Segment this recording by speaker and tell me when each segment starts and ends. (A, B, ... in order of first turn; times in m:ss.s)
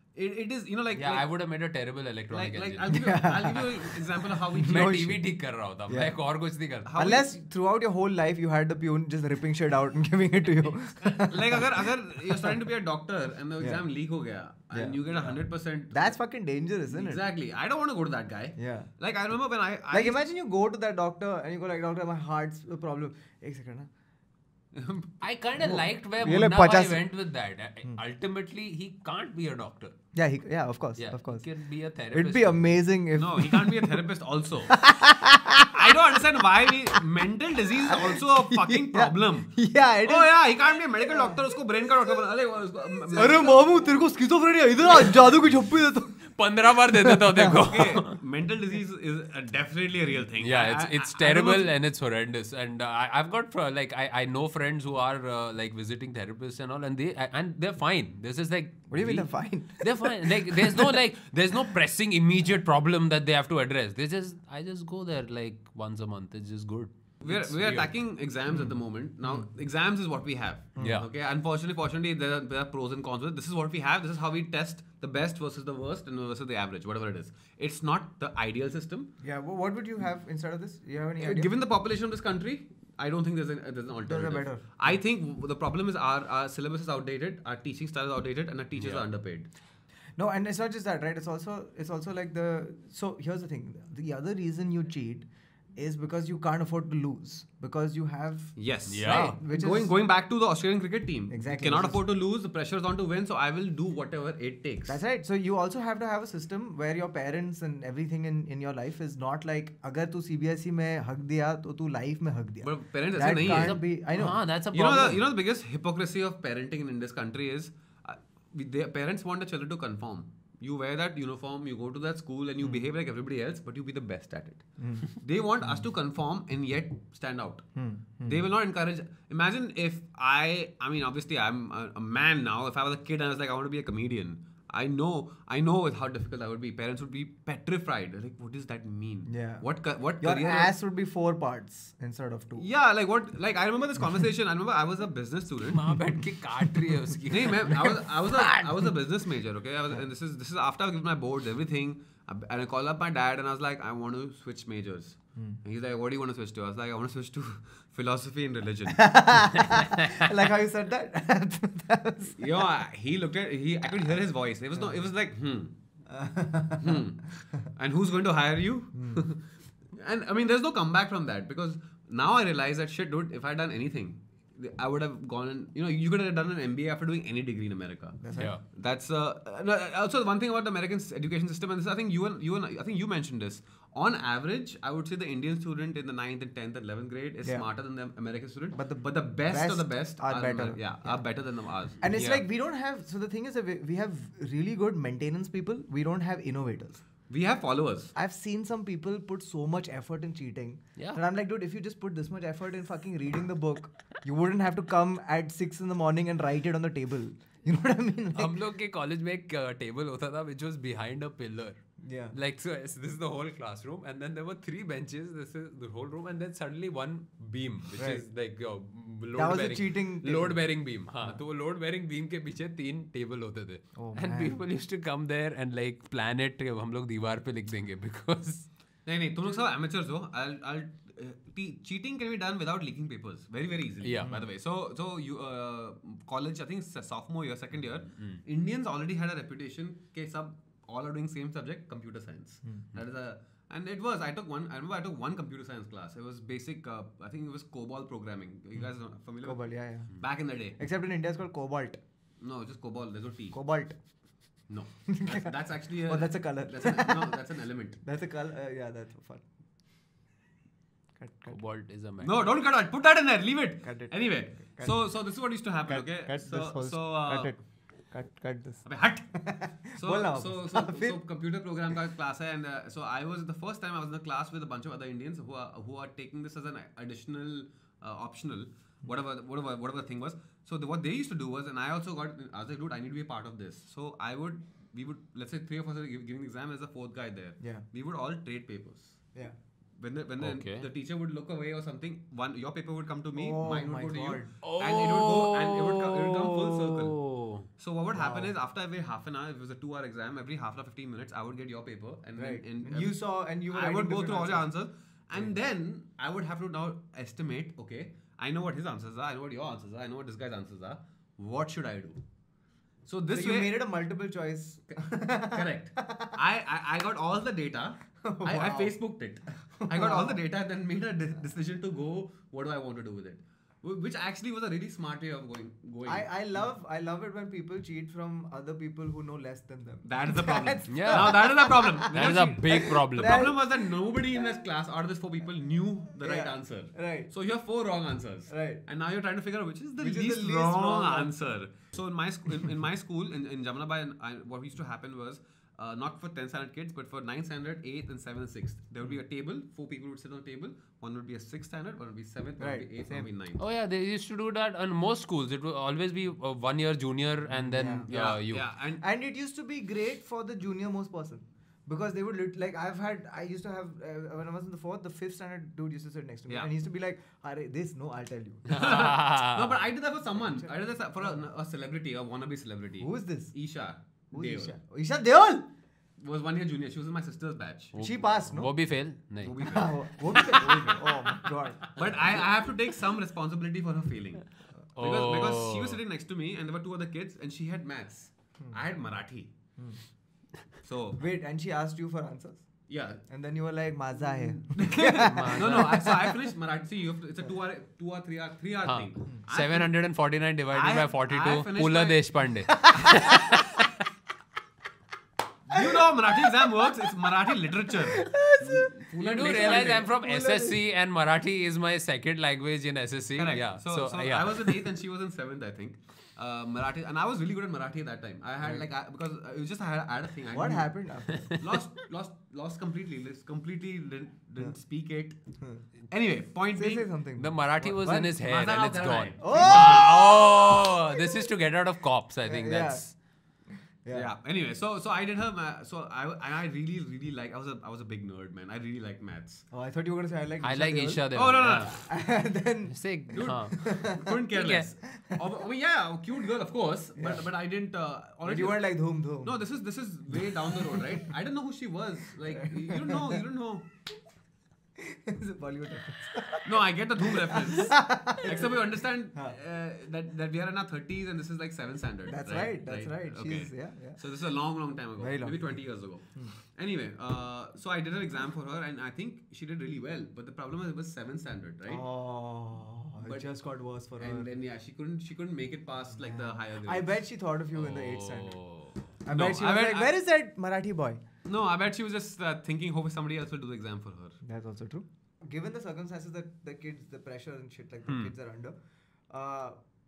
0:00.2-0:01.3 A
0:01.0-0:03.0 B
0:02.3-0:05.0 A
0:02.9-0:05.2 C
0:04.6-0:06.9 B
0:05.9-0:06.2 C
0:06.9-0:07.3 A
0:07.0-0:12.6 C
0:11.3-0:16.2 A
0:14.7-0:15.4 C
0:15.9-0:17.3 C
0:16.9-0:20.2 A
0:18.6-0:18.9 C
0:19.9-0:23.9 C
0:24.7-0:25.1 A
0:25.2-0:30.0 B
0:25.6-0:27.0 C
0:30.1-0:31.4 C
0:31.0-0:32.7 B
0:32.1-0:34.1 C
0:33.2-0:34.8 A
0:34.7-0:37.0 C
0:35.7-0:43.7 A
0:37.9-0:40.4 C
0:41.0-0:41.5 C
0:43.1-0:46.2 C
0:46.2-0:48.2 B
0:46.9-0:47.9 C
0:47.6-0:51.7 A
0:50.4-1:07.9 B
0:58.9-1:01.0 C
1:07.2-1:19.1 A
1:08.5-1:09.5 C
1:10.8-1:11.0 C
1:10.8-1:11.1 B
1:19.2-1:21.5 C
1:21.2-1:29.5 A
1:24.1-1:24.8 C
1:28.8-1:29.1 B
1:30.2-1:39.9 C
1:38.6-1:45.0 A
1:38.9-1:39.4 B
1:41.3-1:42.0 C
1:44.9-1:54.4 C
1:52.6-1:53.8 A
1:53.3-1:55.2 B
1:54.7-2:07.7 A
2:04.8-2:05.1 C
2:07.8-2:08.4 C
2:08.2-2:20.7 A
2:19.3-2:19.7 C
2:20.2-2:22.7 C
2:22.6-2:25.8 A
2:25.6-2:28.7 B
2:26.6-2:27.1 C
2:27.3-2:39.2 A
2:27.7-2:28.0 C
2:38.9-2:42.5 C
2:39.5-2:40.3 B
2:42.4-2:45.7 A
2:44.8-2:45.0 C
2:46.1-2:47.1 C
2:46.8-2:49.4 A
2:48.9-2:49.3 C
2:49.9-3:12.0 A
2:58.2-2:58.5 C
3:08.8-3:11.2 C
3:12.0-3:17.0 C
3:12.1-3:12.4 B
3:17.3-3:18.1 A
3:18.2-3:28.6 C
3:28.4-3:31.8 B
3:32.0-3:32.4 C
3:32.3-3:48.7 B
3:38.0-3:38.3 C
3:39.4-3:40.6 C
3:44.0-3:44.6 C
3:49.1-4:10.8 A
3:54.0-3:54.4 B
3:58.1-3:58.4 B
4:09.4-4:10.1 C
4:10.8-4:12.0 C
4:12.4-4:13.6 A
4:13.5-4:14.0 C
4:14.7-4:18.0 A
4:15.1-4:17.4 C
4:18.0-4:19.4 C
4:21.2-4:21.6 C
4:21.5-4:22.5 B
4:22.2-4:27.5 A
4:23.8-4:24.1 C
4:24.7-4:25.0 C
4:25.9-4:27.6 C
4:28.1-4:28.8 C
4:28.9-4:29.4 A
4:29.4-4:31.2 C
4:29.9-4:49.2 A
4:50.0-4:57.2 A
4:50.4-4:50.9 B
4:53.4-4:54.5 C
4:54.6-4:57.7 B
4:57.8-5:03.2 A
4:58.1-4:58.5 C
5:02.4-5:04.7 C
5:03.7-5:12.2 A
5:13.1-5:13.8 A
5:13.3-5:16.4 C
5:14.9-5:26.6 A
5:18.2-5:19.0 C
5:19.8-5:20.4 C
5:26.0-5:34.5 C
5:30.0-5:53.6 A
5:30.9-5:31.4 B
5:32.1-5:33.5 B
5:36.2-5:37.3 C
5:38.5-5:38.8 C
5:40.0-5:41.3 C
5:52.6-5:53.3 C
5:53.6-5:58.7 B
5:57.5-5:58.1 C
5:58.1-5:59.0 A
5:59.0-6:08.8 C
6:08.7-6:09.8 B
6:08.7-6:14.8 A
6:10.4-6:11.4 C
6:13.0-6:13.5 C
6:14.3-6:15.7 C
6:16.2-6:18.0 A
6:18.0-6:19.6 B
6:18.0-6:18.7 C
6:19.4-6:21.0 A
6:19.6-6:21.9 C
6:21.9-6:29.5 A
6:25.0-6:26.0 B
6:30.8-6:31.2 A
6:31.2-6:32.6 C
6:32.9-6:33.2 A
6:33.3-6:36.5 C
6:34.7-6:39.9 A
6:35.1-6:36.1 B
6:38.8-6:43.9 B
6:40.7-6:42.4 A
6:42.7-6:43.6 C
6:45.7-6:50.1 A
6:45.7-6:50.8 C
6:49.2-6:54.8 B
6:53.4-7:00.9 A
7:00.5-7:01.5 C
7:01.5-7:05.4 A
7:06.1-7:07.1 A
7:06.7-7:08.3 C
7:07.4-7:13.1 B
7:08.1-7:10.1 A
7:09.4-7:11.4 C
7:12.4-7:13.1 C
7:13.7-7:14.3 C
7:14.1-7:19.6 A
7:19.7-7:21.2 C
7:20.6-7:22.0 B
7:21.3-7:22.0 A
7:21.8-7:24.4 C
7:22.9-7:23.8 B
7:23.3-7:33.9 A
7:24.5-7:24.9 B
7:27.2-7:27.5 C
7:28.4-7:29.6 C
7:30.4-7:31.2 C
7:32.5-7:33.4 C
7:35.0-7:39.6 C
7:36.6-7:52.0 A
7:42.3-7:44.2 C
7:45.2-7:45.8 C
7:51.9-7:54.5 C
7:53.2-7:53.5 A
7:54.2-7:57.2 A
7:56.1-7:58.6 C
7:57.7-7:59.0 B
7:59.2-8:01.2 C
7:59.3-8:00.1 A
8:01.5-8:04.4 A
8:04.4-8:08.8 C
8:09.3-8:09.8 C